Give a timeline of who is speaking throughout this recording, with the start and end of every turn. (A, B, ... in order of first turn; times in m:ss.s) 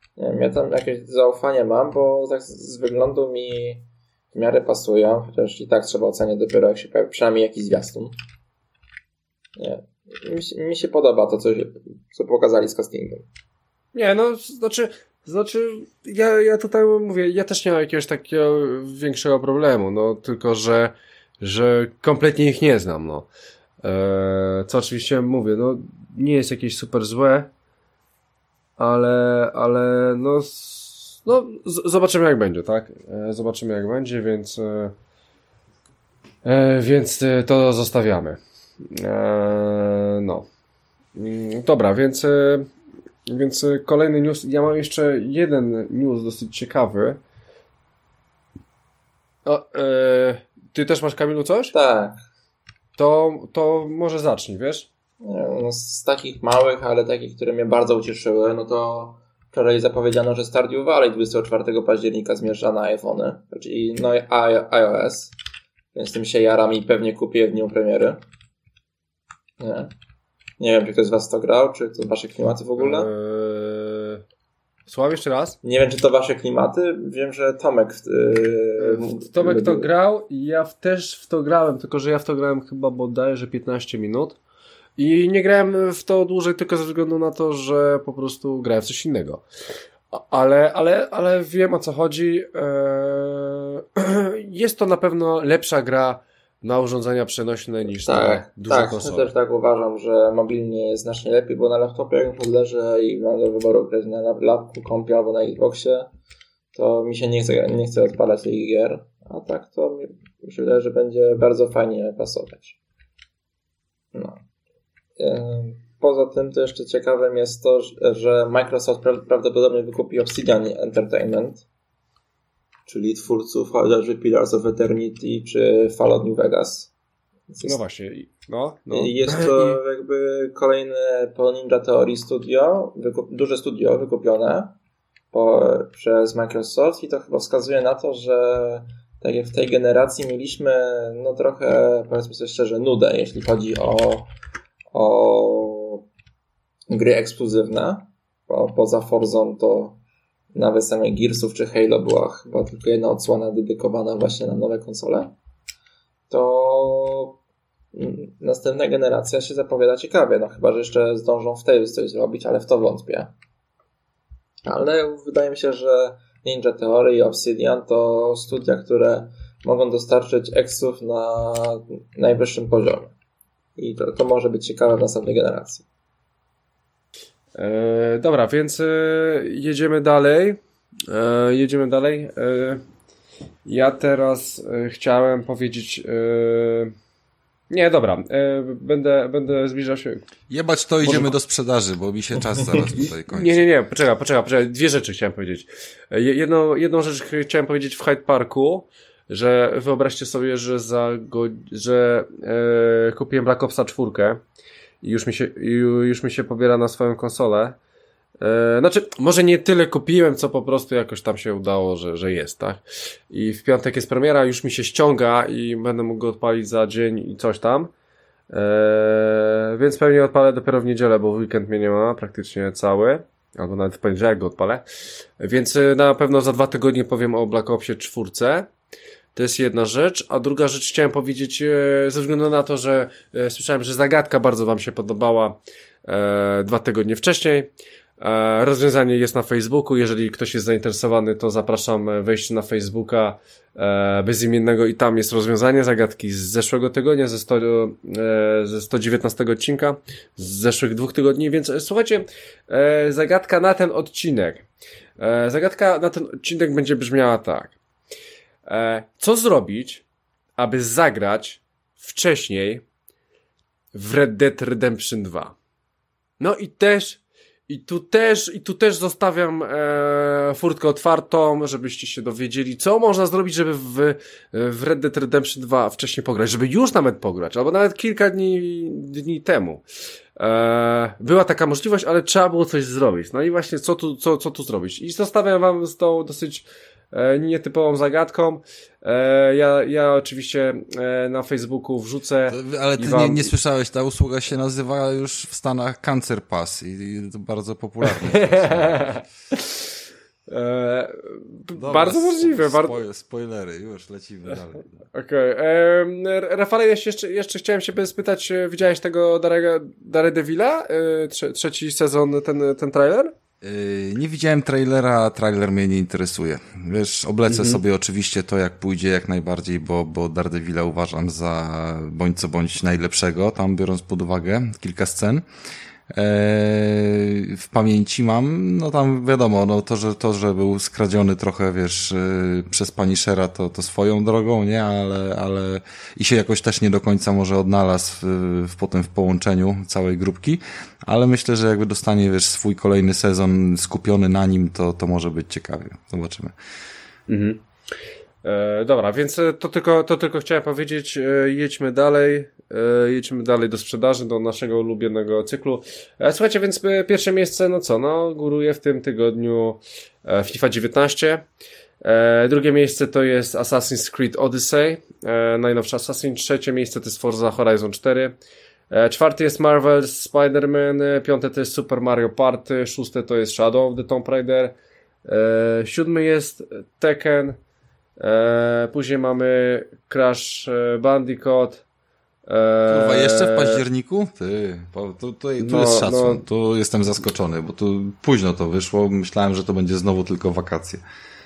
0:00.2-0:08.1 A
0:09.6-0:13.2 A
0:14.0-0:23.3 B
0:23.8-0:27.5 B
0:28.8-0:34.9 B
0:36.4-0:40.5 B
0:41.2-0:42.7 B
0:43.3-0:47.2 B
0:49.4-0:51.7 B
0:51.7-0:52.2 A
0:53.0-0:54.9 B
0:55.2-1:05.3 A
1:06.0-1:08.2 A
1:09.6-1:09.9 A
1:10.6-1:13.1 A
1:12.8-1:14.2 B
1:14.9-1:15.6 B
1:15.6-1:19.9 A
1:18.8-1:24.4 B
1:25.0-1:29.4 B
1:30.1-1:39.3 B
1:37.9-1:46.1 A
1:46.7-1:52.8 A
1:54.1-1:54.4 A
1:55.2-2:01.6 A
2:02.9-2:06.9 A
2:07.5-2:07.8 A
2:07.6-2:09.8 B
2:08.9-2:14.8 A
2:15.3-2:24.3 A
2:24.9-2:26.0 A
2:26.9-2:30.0 A
2:30.5-2:35.3 A
2:36.3-2:37.4 A
2:37.9-2:43.3 A
2:44.7-2:53.1 A
2:53.8-2:55.8 A
2:57.6-3:02.8 B
3:03.6-3:07.0 B
3:07.7-3:10.3 B
3:10.5-3:13.6 C
3:11.0-3:11.3 B
3:13.3-3:24.4 B
3:25.0-3:27.8 B
3:28.4-3:37.9 B
3:38.5-3:44.8 B
3:45.4-3:48.7 B
3:49.4-4:14.7 B
4:15.2-4:17.8 B
4:18.7-4:20.0 B
4:20.6-4:22.8 B
4:24.0-4:25.6 B
4:26.4-4:39.8 B
4:40.4-4:53.5 B
4:52.5-4:59.1 C
4:58.1-4:59.9 B
5:00.5-5:03.0 B
5:01.8-5:04.9 C
5:05.1-5:13.3 B
5:13.6-5:25.4 C
5:17.5-5:17.8 B
5:26.1-5:46.6 C
5:47.3-5:47.6 B
5:48.4-6:01.5 B
6:02.0-6:08.4 B
6:08.9-6:17.6 B
6:18.2-6:21.8 B
6:22.5-6:23.8 B
6:22.9-6:31.0 C
6:25.6-6:26.4 B